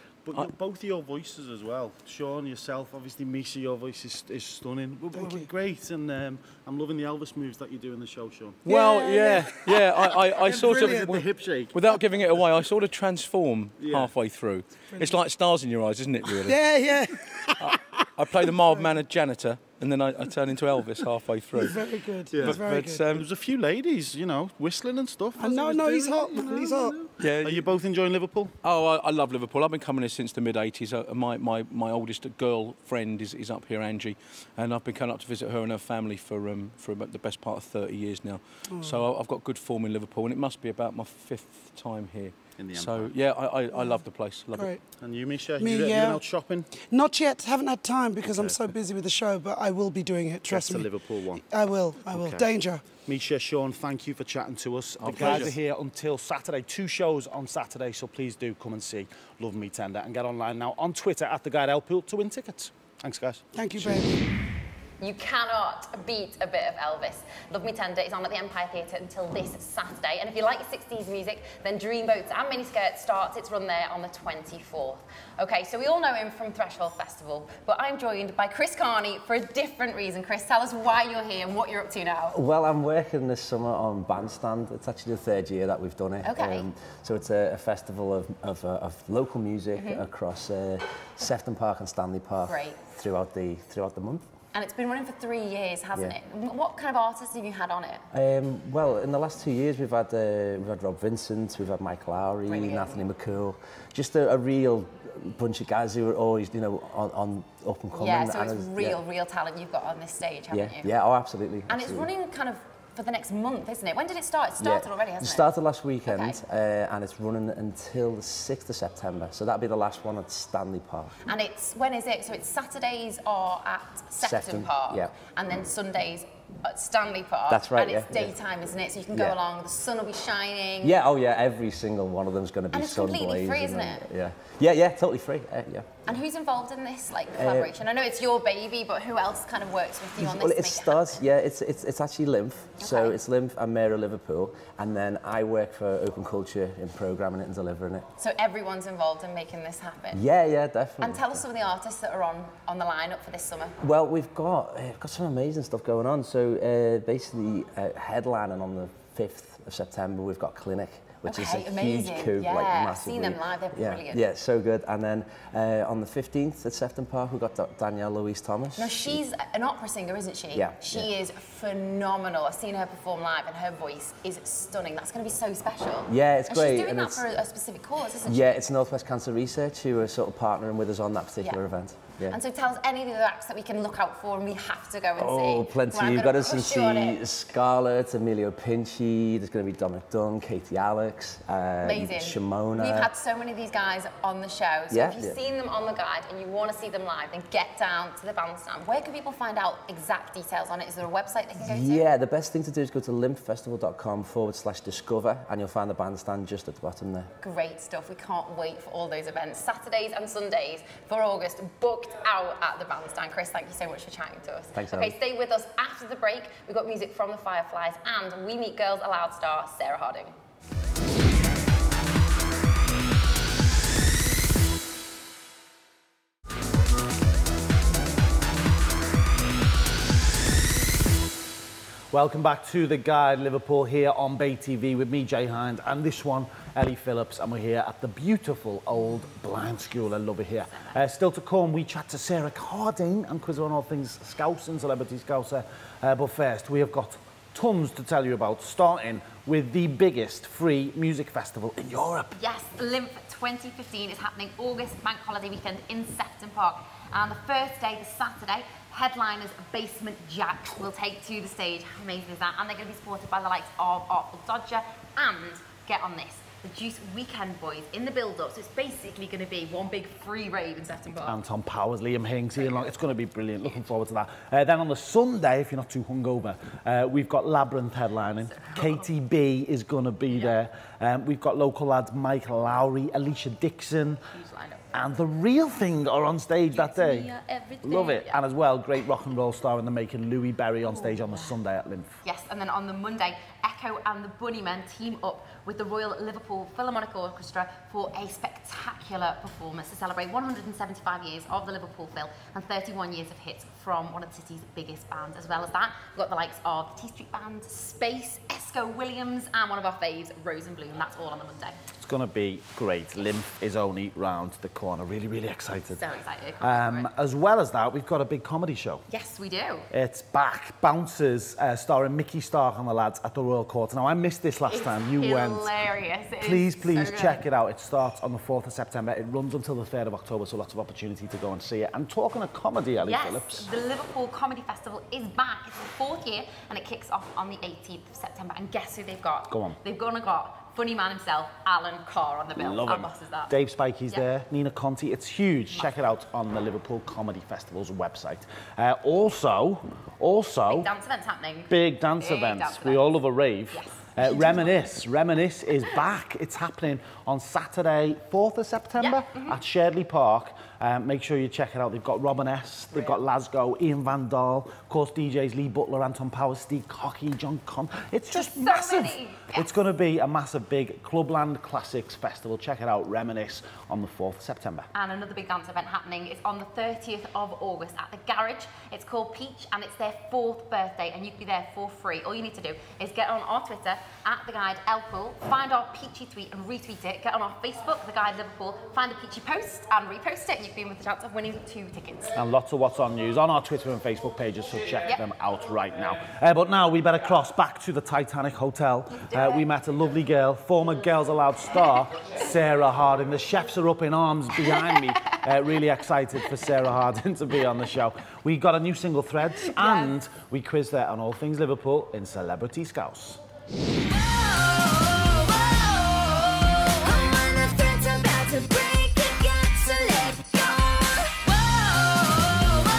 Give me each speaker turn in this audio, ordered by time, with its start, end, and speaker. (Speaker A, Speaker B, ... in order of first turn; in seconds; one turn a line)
Speaker A: 0.2-8.6
Speaker B: 5.1-5.5
Speaker B: 8.7-9.9
Speaker C: 8.7-16.8
Speaker A: 10.3-11.7
Speaker A: 13.8-14.1
Speaker B: 14.9-15.2
Speaker B: 16.3-17.8
Speaker C: 17.6-23.3
Speaker B: 18.4-19.0
Speaker B: 21.6-23.0
Speaker A: 22.3-28.5
Speaker B: 25.4-27.1
Speaker C: 27.2-27.7
Speaker C: 28.6-44.8
Speaker B: 38.7-39.0
Speaker A: 42.6-43.1
Speaker B: 43.7-44.8
Speaker A: 45.0-46.7
Speaker B: 45.6-46.2
Speaker B: 46.7-52.8
Speaker A: 48.2-48.6
Speaker A: 50.5-51.4
Speaker A: 52.0-64.0
Speaker C: 55.0-55.5
Speaker B: 63.5-64.3
Speaker D: 65.0-82.4
Speaker E: 82.3-94.2
Speaker D: 86.2-86.7
Speaker D: 89.7-90.0
Speaker D: 92.5-92.8
Speaker D: 94.5-98.1
Speaker E: 98.1-109.0
Speaker D: 102.5-103.0
Speaker D: 107.9-110.9
Speaker E: 110.5-112.1
Speaker D: 111.7-115.5
Speaker E: 114.6-121.3
Speaker D: 116.1-116.4
Speaker D: 121.3-131.0
Speaker E: 124.2-125.1
Speaker E: 127.5-128.4
Speaker E: 129.1-129.4
Speaker E: 130.8-136.2
Speaker D: 132.7-134.0
Speaker D: 136.1-141.2
Speaker E: 137.3-137.7
Speaker E: 140.2-148.1
Speaker D: 142.8-143.2
Speaker D: 148.2-150.2
Speaker E: 150.1-151.4
Speaker D: 151.0-153.8
Speaker E: 153.8-169.2
Speaker D: 161.2-164.2
Speaker D: 168.8-178.6
Speaker E: 170.5-171.1
Speaker E: 176.1-177.3
Speaker E: 178.2-182.4
Speaker D: 182.3-187.2
Speaker E: 185.2-193.1
Speaker D: 191.8-202.1
Speaker E: 194.9-195.4
Speaker E: 201.6-207.3
Speaker D: 207.4-220.3
Speaker E: 214.7-215.2
Speaker A: 232.1-252.4
Speaker D: 252.3-271.4
Speaker A: 271.2-284.2
Speaker D: 272.6-273.0
Speaker D: 278.5-279.0
Speaker D: 284.3-284.8
Speaker A: 284.9-287.3
Speaker D: 286.7-288.3
Speaker A: 287.8-292.2
Speaker D: 290.9-291.5
Speaker D: 292.2-311.8
Speaker A: 312.0-316.0
Speaker D: 315.9-317.1
Speaker A: 316.6-319.1
Speaker D: 319.1-319.9
Speaker A: 319.9-325.7
Speaker D: 324.7-327.4
Speaker A: 326.4-333.7
Speaker D: 333.0-343.5
Speaker A: 339.5-339.8
Speaker A: 342.6-350.9
Speaker D: 345.7-346.0
Speaker D: 350.7-353.1
Speaker A: 351.7-374.9
Speaker D: 353.7-354.8
Speaker D: 359.0-359.6
Speaker D: 368.3-369.6
Speaker D: 374.9-392.3
Speaker A: 392.3-413.4
Speaker D: 399.2-399.6
Speaker D: 417.2-422.0